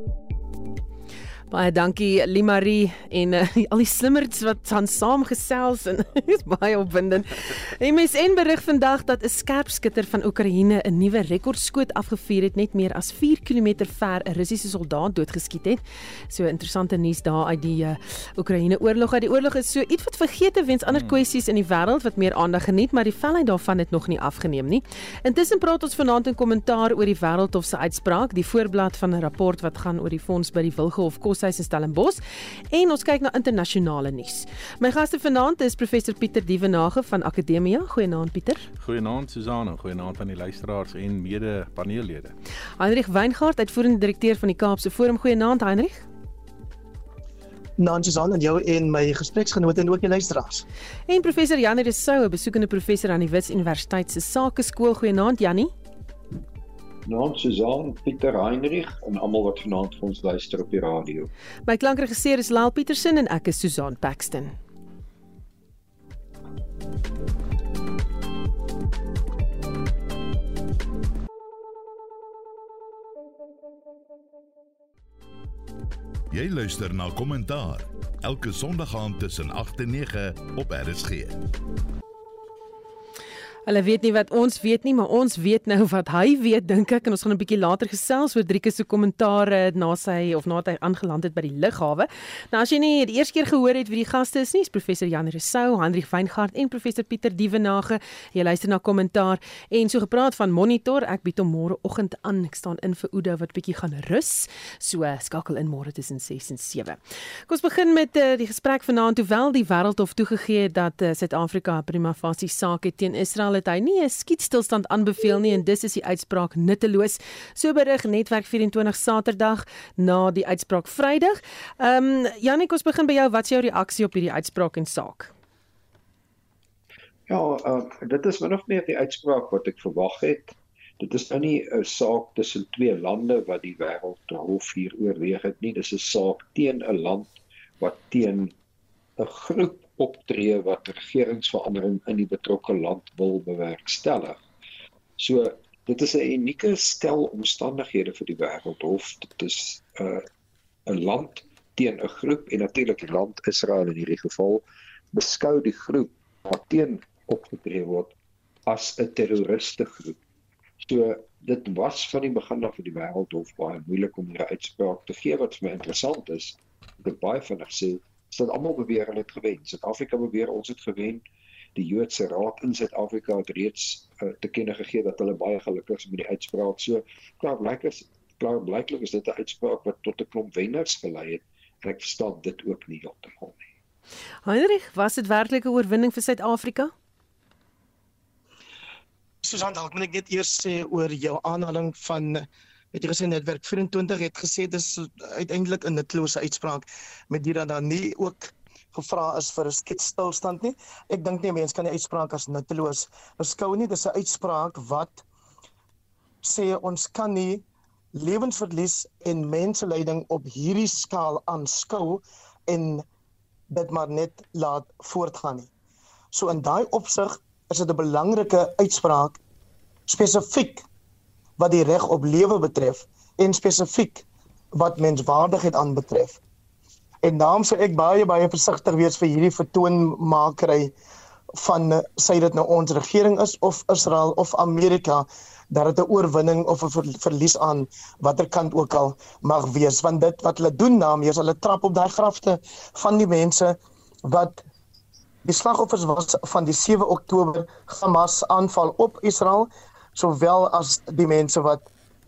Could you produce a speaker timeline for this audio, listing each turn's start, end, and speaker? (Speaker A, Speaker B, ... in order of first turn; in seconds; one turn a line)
Speaker A: 1.5-38.7
Speaker B: 38.8-42.3
Speaker A: 42.8-46.0
Speaker C: 47.8-50.6
Speaker A: 51.1-55.7
Speaker D: 57.1-61.3
Speaker A: 61.7-64.6
Speaker E: 76.3-81.4
Speaker A: 83.7-125.3
Speaker D: 127.3-138.6
Speaker D: 139.2-144.4
Speaker D: 145.2-150.3
Speaker D: 150.9-160.2
Speaker D: 160.8-171.2
Speaker D: 171.8-183.7
Speaker A: 184.5-186.9
Speaker C: 189.4-205.2
Speaker C: 206.4-213.1
Speaker C: 213.7-215.7
Speaker C: 216.3-219.4
Speaker C: 220.1-220.8
Speaker C: 221.6-226.4
Speaker C: 227.2-230.9
Speaker C: 231.5-244.6
Speaker C: 245.4-251.9